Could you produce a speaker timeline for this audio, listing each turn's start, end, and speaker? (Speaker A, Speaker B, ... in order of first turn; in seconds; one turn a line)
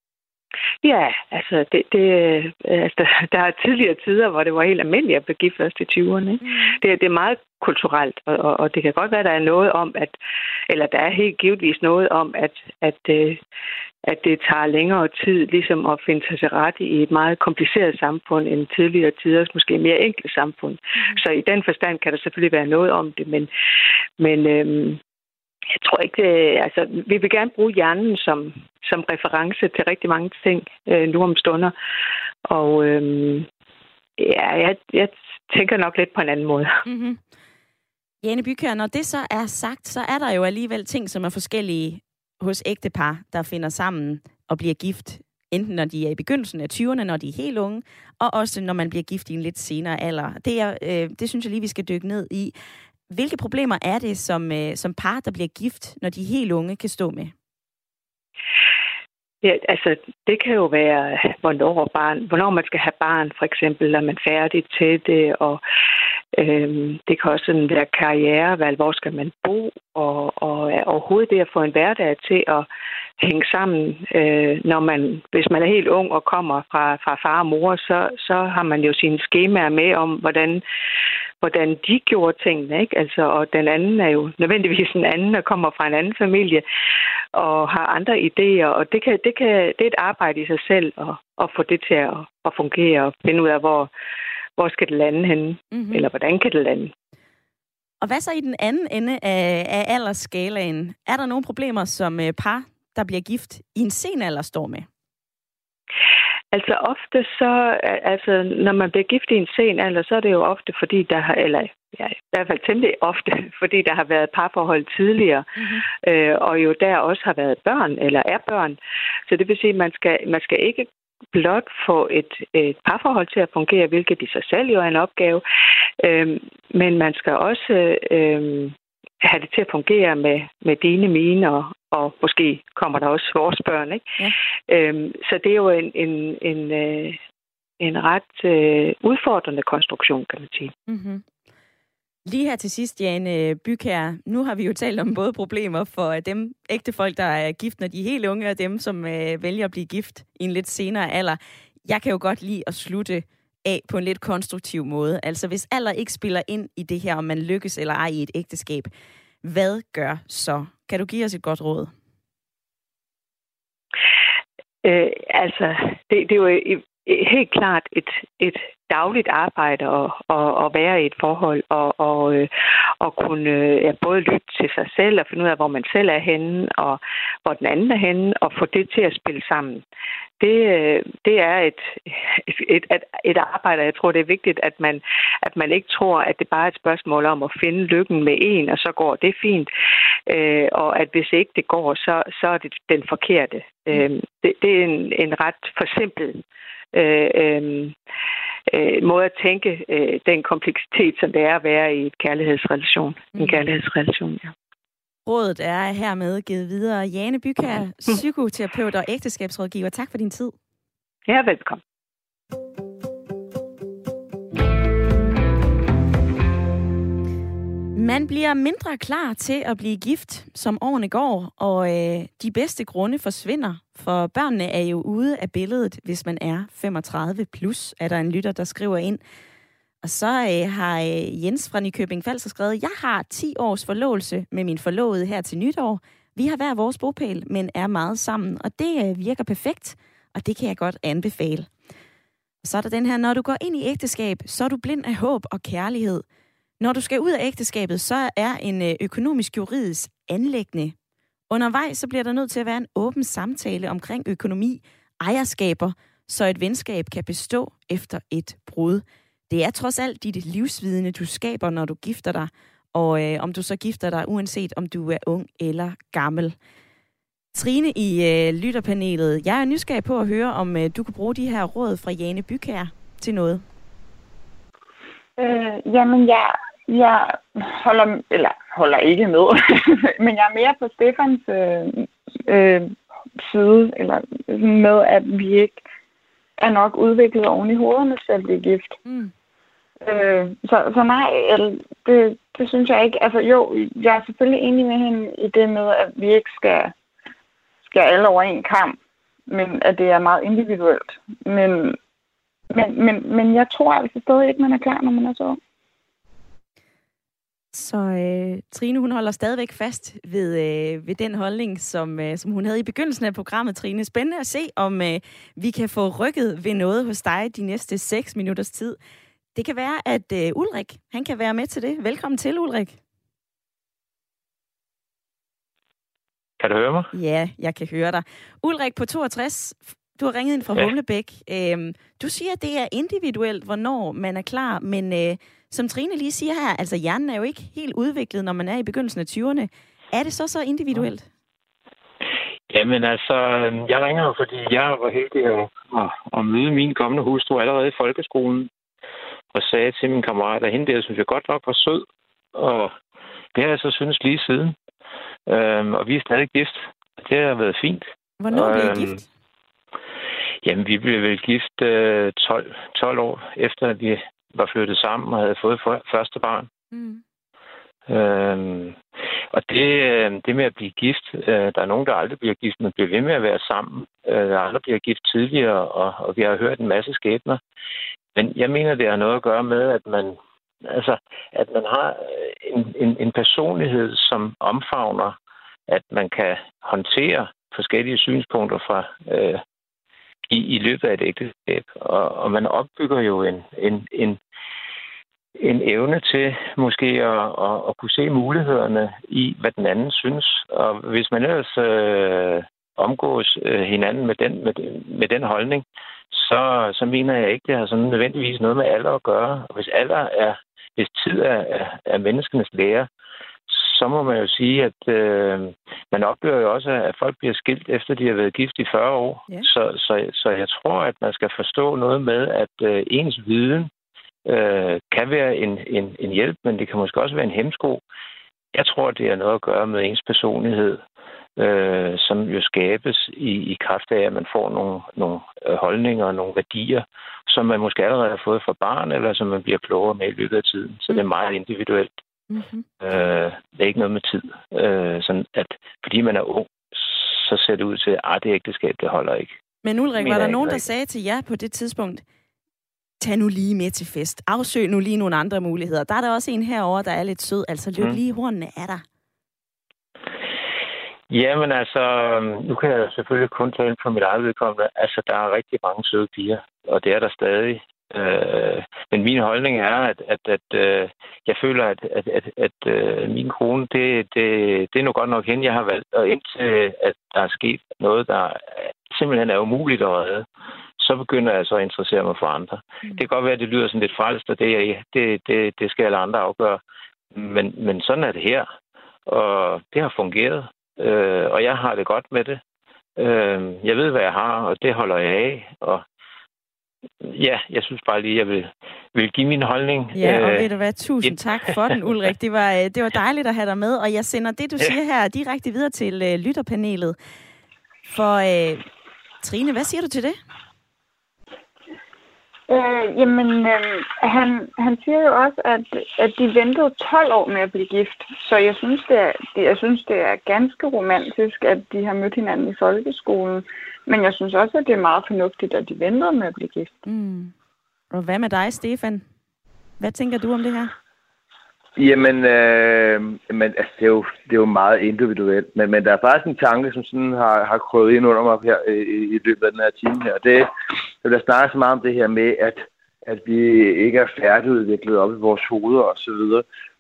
Speaker A: 0.8-10.2
Speaker B: 6.4-6.8
Speaker A: 10.7-13.4
Speaker A: 14.1-23.5
Speaker A: 24.2-25.0
Speaker A: 25.7-31.7
Speaker A: 32.5-33.5
Speaker A: 34.2-36.8
Speaker B: 36.8-37.2
Speaker B: 38.2-52.5
Speaker B: 53.1-57.3
Speaker A: 59.4-65.6
Speaker A: 66.3-72.7
Speaker A: 73.2-80.6
Speaker A: 81.4-86.6
Speaker A: 87.3-93.9
Speaker A: 94.6-96.9
Speaker B: 95.7-96.1
Speaker B: 98.0-104.9
Speaker A: 106.5-115.5
Speaker B: 115.6-115.8
Speaker A: 116.0-125.4
Speaker A: 126.0-134.1
Speaker A: 134.7-137.2
Speaker A: 137.8-140.7
Speaker B: 140.9-141.2
Speaker B: 142.3-158.9
Speaker B: 159.4-161.9
Speaker A: 164.8-172.5
Speaker A: 173.0-179.8
Speaker A: 180.4-189.7
Speaker A: 190.3-196.4
Speaker A: 196.9-197.9
Speaker A: 198.7-204.5
Speaker B: 203.3-203.6
Speaker B: 205.2-210.5
Speaker A: 211.3-211.8
Speaker B: 217.9-229.2
Speaker B: 230.0-241.7
Speaker B: 242.6-246.2
Speaker B: 246.8-250.9
Speaker B: 251.5-266.5
Speaker B: 267.5-273.6
Speaker C: 275.4-285.8
Speaker C: 286.6-289.0
Speaker B: 289.0-289.3
Speaker C: 290.0-296.9
Speaker C: 297.8-302.0
Speaker C: 302.7-305.6
Speaker B: 307.7-319.0
Speaker B: 319.5-323.0
Speaker D: 326.6-327.1
Speaker B: 327.1-341.2
Speaker D: 342.7-348.7
Speaker D: 349.5-352.9
Speaker D: 353.5-354.8
Speaker D: 355.5-359.2
Speaker B: 358.4-359.3
Speaker D: 360.6-366.7
Speaker B: 366.9-367.2
Speaker D: 368.1-369.0
Speaker D: 369.5-377.6
Speaker D: 378.3-385.4
Speaker D: 385.9-389.6
Speaker D: 390.5-394.4
Speaker D: 395.6-413.1
Speaker D: 413.7-423.9
Speaker D: 424.4-428.0
Speaker D: 428.7-431.0
Speaker D: 431.6-442.1
Speaker B: 442.5-442.9
Speaker D: 443.0-449.5
Speaker B: 449.8-452.2
Speaker D: 450.2-450.8
Speaker B: 453.2-459.0
Speaker D: 461.3-480.5
Speaker D: 481.0-486.8
Speaker D: 487.3-488.7
Speaker D: 489.2-492.6
Speaker D: 493.2-496.0
Speaker D: 497.2-500.7
Speaker B: 500.1-507.1
Speaker D: 501.2-502.0
Speaker B: 508.1-508.8
Speaker B: 509.4-510.4
Speaker C: 512.7-526.9
Speaker B: 527.0-527.5
Speaker B: 528.1-529.2
Speaker B: 530.0-530.9
Speaker E: 532.0-540.7
Speaker E: 541.2-546.6